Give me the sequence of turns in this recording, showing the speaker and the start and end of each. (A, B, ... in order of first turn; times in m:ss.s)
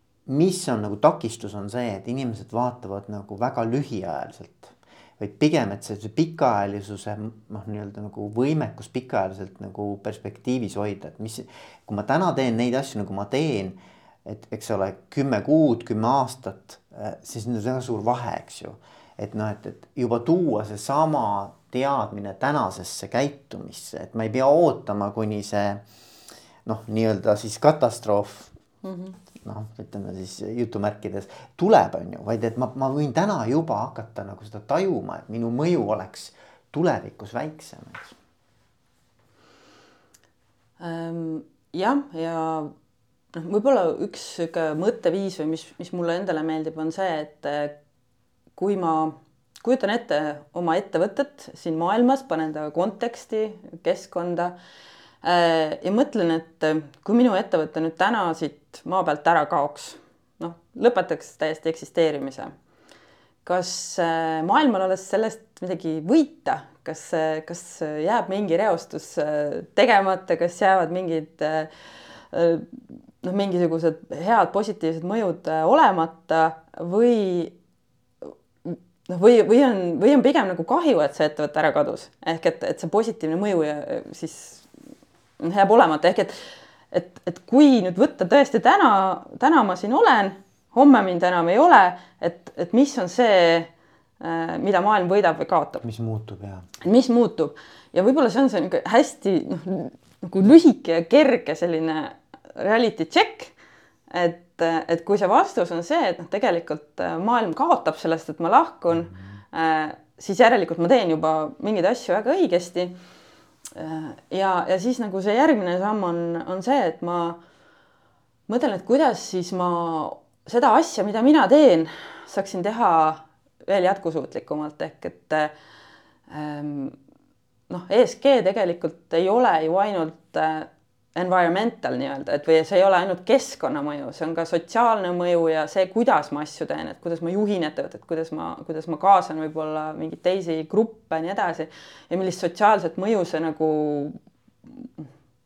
0:00.3-0:25.8 A
0:26.7-0:28.5 A
0:28.8-0:29.2 B
0:29.4-0:38.2 A
0:40.8-0:42.7 B
0:43.3-0:47.8 B
0:48.6-0:54.5 B
0:55.2-1:02.5 B
1:03.4-1:11.7 B
1:12.3-1:17.5 B
1:18.6-1:24.7 B
1:25.4-1:26.4 B
1:26.9-1:35.8 B
1:35.8-1:36.7 A
1:36.8-1:43.5 B
1:44.1-1:53.0 B
1:53.8-1:57.4 B
1:58.5-2:05.5 B
2:06.3-2:07.0 B
2:07.7-2:24.9 B